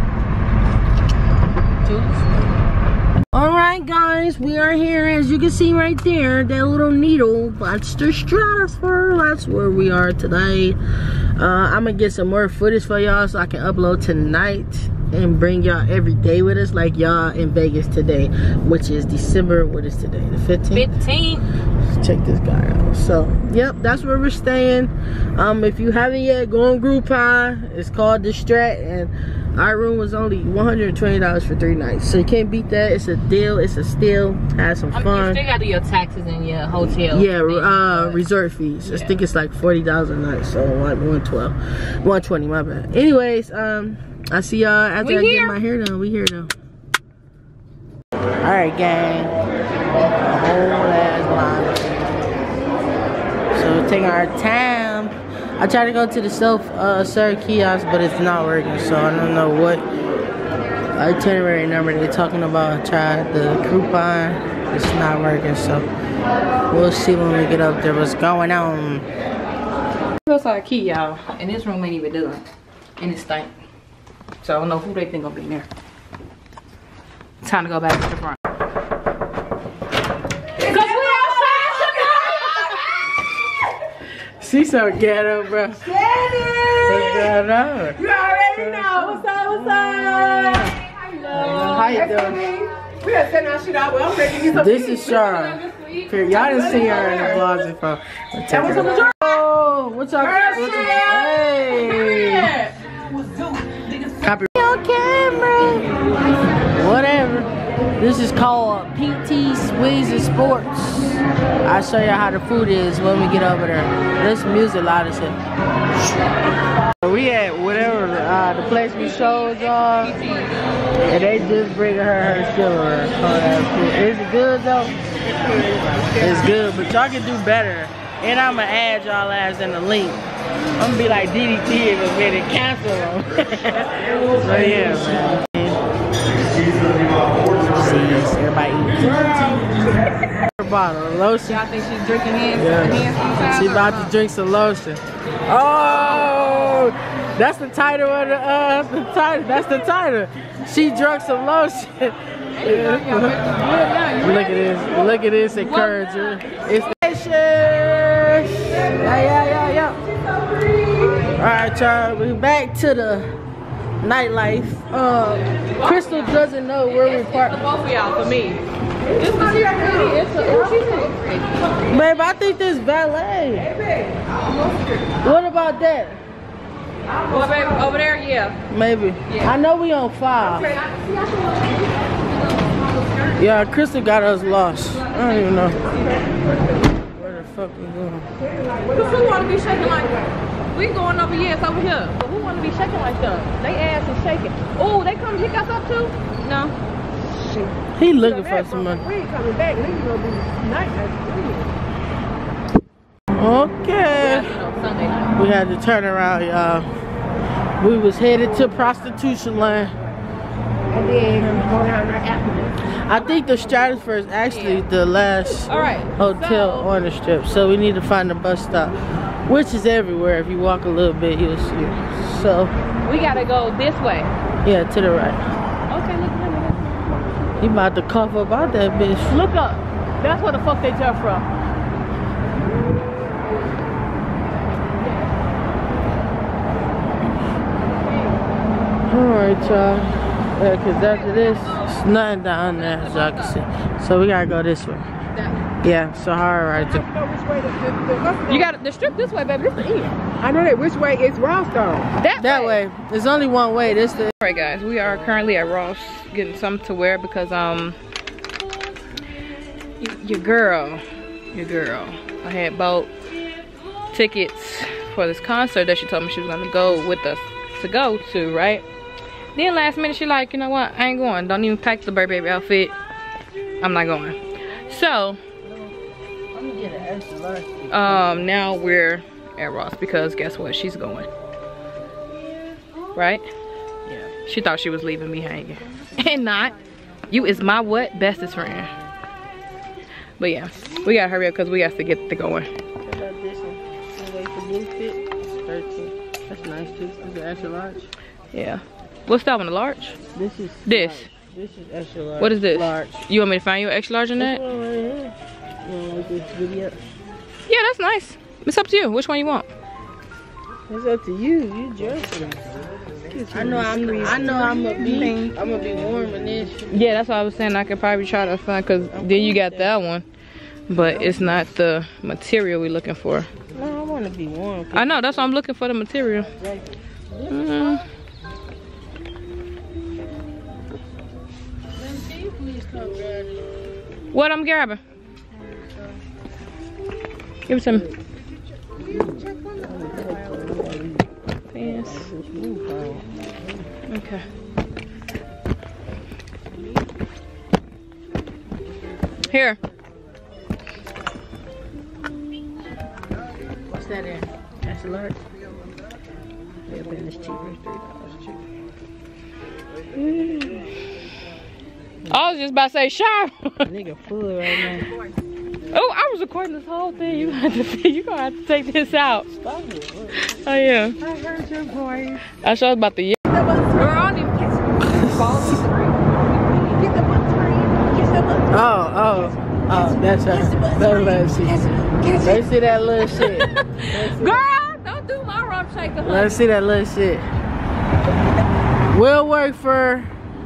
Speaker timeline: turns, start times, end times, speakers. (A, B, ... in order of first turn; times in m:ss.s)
0:01.8-0:02.3 A
0:03.3-0:10.8 A
0:11.4-0:21.0 A
0:20.7-0:21.4 B
0:21.7-0:35.4 A
0:34.9-0:38.2 B
0:37.0-0:46.5 A
0:38.8-0:39.2 B
0:45.0-0:45.6 B
0:48.4-0:49.4 A
0:50.2-0:52.1 A
0:53.5-0:59.8 A
1:01.0-1:05.9 A
1:06.7-1:09.1 A
1:10.2-1:12.4 B
1:13.0-1:13.5 B
1:14.4-1:15.7 B
1:17.4-1:18.4 B
1:20.6-1:22.8 B
1:24.4-1:26.0 A
1:25.9-1:27.3 C
1:26.7-1:30.8 A
1:28.0-1:30.7 C
1:31.1-1:32.0 B
1:31.3-1:32.4 A
1:31.9-1:34.9 C
1:34.4-1:42.5 A
1:34.8-1:37.5 B
1:40.3-1:42.4 B
1:42.7-1:44.2 C
1:44.2-1:46.0 A
1:46.6-1:55.4 A
1:57.0-2:00.2 A
1:58.9-2:00.6 B
2:01.1-2:04.9 A
2:05.4-2:06.3 C
2:05.7-2:10.2 A
2:10.8-2:15.8 A
2:17.6-2:19.7 A
2:20.4-2:21.6 A
2:21.5-2:24.1 B
2:22.5-2:40.0 A
2:32.5-2:34.7 B
2:35.6-2:36.4 B
2:41.3-2:43.3 A
2:44.0-2:47.6 A
2:45.6-2:51.8 B
2:51.9-2:53.7 A
2:55.2-2:56.2 A
2:57.2-2:58.6 B
2:58.7-3:00.8 A
3:03.4-3:05.8 A
3:06.9-3:08.3 A
3:08.8-3:16.7 B
3:17.3-3:21.7 C
3:18.0-3:19.0 A
3:23.3-3:24.5 A
3:24.1-3:25.4 B
3:25.4-3:26.9 A
3:27.8-3:29.9 A
3:30.9-3:32.8 C
3:33.0-3:42.7 A
3:34.5-3:34.8 B
3:35.7-3:36.9 B
3:43.0-3:44.3 B
3:44.6-3:45.4 A
3:45.9-3:47.0 B
3:47.6-3:49.4 A
3:49.3-3:51.4 B
3:59.1-4:05.1 A
4:01.0-4:02.0 B
4:02.7-4:03.6 B
4:05.8-4:07.0 A
4:06.9-4:08.7 C
4:08.5-4:10.2 B
4:10.4-4:12.1 C
4:12.2-4:12.8 B
4:12.4-4:14.3 A
4:14.4-4:18.0 B
4:20.0-4:23.1 B
4:24.1-4:28.8 B
4:29.5-4:32.9 B
4:33.8-4:35.4 B
4:35.7-4:35.9 A
4:36.5-4:38.4 A
4:37.9-4:41.3 B
4:43.1-4:43.4 B
4:44.3-4:46.7 B
4:47.3-4:48.9 B
4:50.4-4:52.7 B
4:53.0-4:58.1 A
4:58.5-5:00.2 B
5:00.3-5:03.2 A
5:00.8-5:01.3 B
5:02.4-5:04.6 B
5:04.4-5:05.3 A
5:05.8-5:07.0 A
5:07.7-5:09.7 B
5:10.9-5:12.6 A
5:13.3-5:15.3 C
5:13.5-5:17.0 A
5:13.8-5:15.5 B
5:16.9-5:20.2 B
5:19.1-5:19.9 A
5:20.9-5:23.5 B
5:20.9-5:21.6 A
5:23.7-5:25.5 A
5:24.9-5:26.5 B
5:26.6-5:28.0 A
5:27.5-5:28.0 B
5:32.0-5:33.6 A
5:34.3-5:35.0 B
5:37.7-5:38.0 B
5:39.0-5:41.2 A
5:41.7-5:42.3 B
5:41.8-5:43.4 A
5:44.1-5:44.4 B
5:49.5-5:49.8 B
5:53.9-5:55.4 A
5:56.9-5:58.6 A
6:00.1-6:00.9 A
6:02.3-6:03.9 B
6:03.8-6:05.1 A
6:05.9-6:09.5 B
6:09.5-6:10.4 A
6:10.4-6:11.2 B
6:11.2-6:12.4 C
6:12.5-6:13.4 B
6:13.5-6:15.1 C
6:13.9-6:16.9 B
6:16.8-6:22.7 C
6:18.7-6:24.6 A
6:23.4-6:26.6 B
6:26.2-6:27.5 A
6:29.1-6:30.3 A